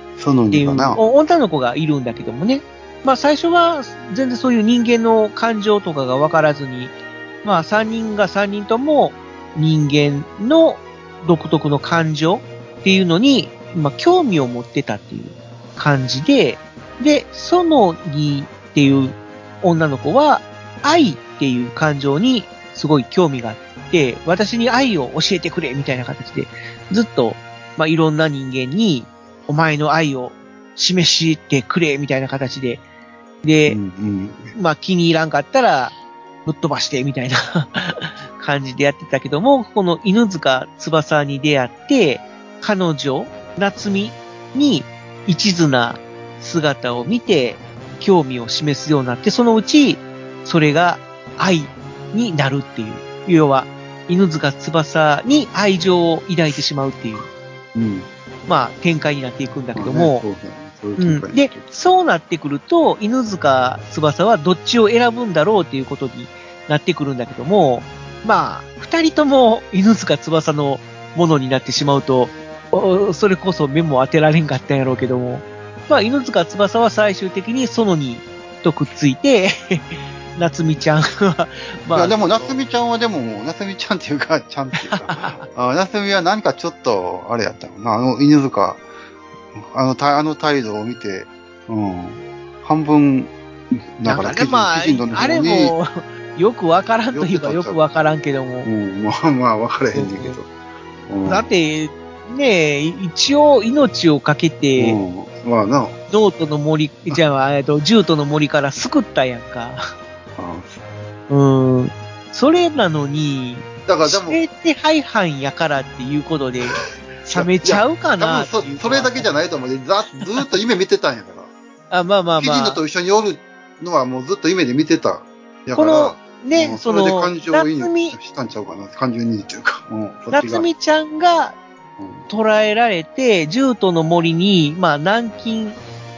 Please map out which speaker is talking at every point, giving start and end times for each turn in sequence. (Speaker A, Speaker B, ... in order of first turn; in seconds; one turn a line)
Speaker A: 0.2-1.0
Speaker B: 0.5-32.8
Speaker B: 33.4-33.8
Speaker A: 33.7-34.5
Speaker B: 34.5-57.3
Speaker A: 57.7-58.1
Speaker B: 58.5-60.2
Speaker A: 59.7-61.7
Speaker B: 61.0-82.5
Speaker A: 81.9-88.8
Speaker B: 84.8-85.4
Speaker A: 89.5-95.7
Speaker B: 94.0-98.7
Speaker A: 97.1-97.8
Speaker A: 98.6-100.5
Speaker B: 99.9-100.4
Speaker A: 101.1-101.5
Speaker B: 101.2-105.0
Speaker A: 104.8-106.0
Speaker B: 106.1-109.8
Speaker A: 110.4-110.8
Speaker B: 111.3-119.3
Speaker A: 113.9-114.4
Speaker A: 117.3-121.5
Speaker B: 121.9-122.8
Speaker A: 122.4-130.7
Speaker B: 125.8-128.2
Speaker B: 130.3-131.6
Speaker A: 132.0-132.3
Speaker B: 132.3-135.8